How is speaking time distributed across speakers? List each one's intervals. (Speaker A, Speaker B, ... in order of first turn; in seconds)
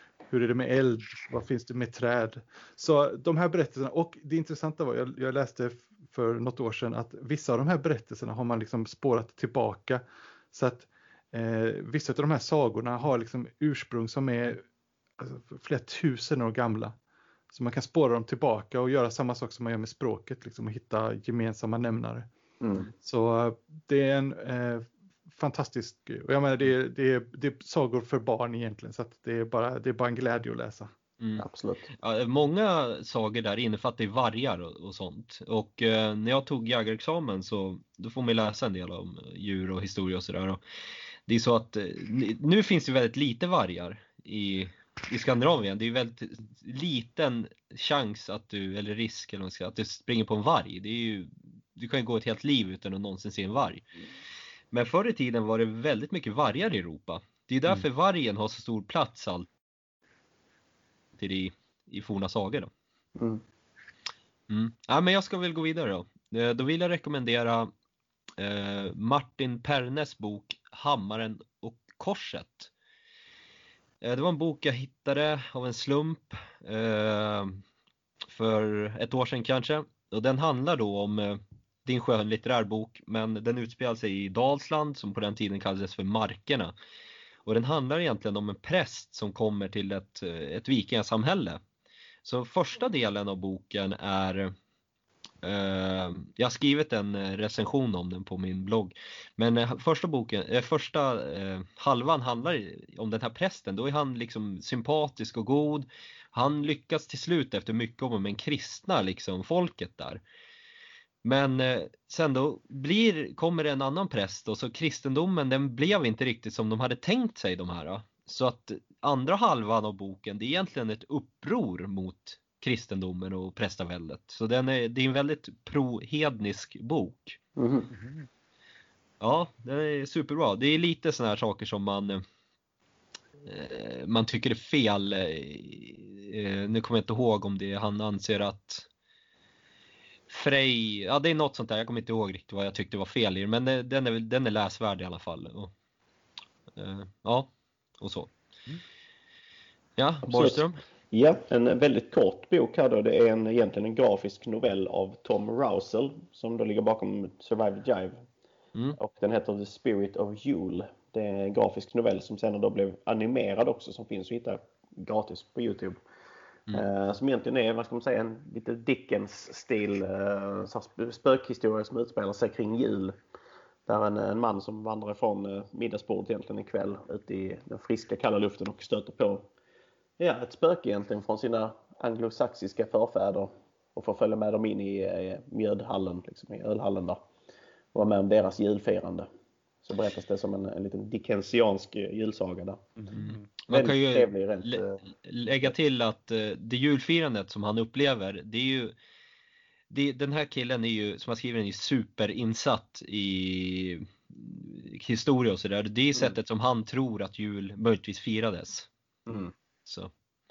Speaker A: 0.3-14.6, 15.2-17.0, 17.5-22.3, 22.9-30.9, 193.0-193.5
Speaker B: 22.6-22.9, 31.4-31.9, 63.2-63.4, 127.6-127.9, 150.3-158.2, 158.9-166.0, 166.7-173.2, 173.9-179.5, 180.2-187.2, 187.9-189.3, 189.8-192.8, 193.7-195.0, 209.3-209.5
Speaker C: 31.2-40.6, 41.3-53.9, 54.7-59.5, 61.2-62.7, 64.5-67.7, 68.4-72.7, 74.0-77.6, 78.3-86.7, 87.5-91.6, 92.2-94.5, 95.4-110.2, 111.2-127.4, 129.2-132.2, 133.5-138.9, 140.3-145.7, 146.8-148.3, 150.0-150.8, 193.1-198.9, 199.9-208.9, 209.9-210.1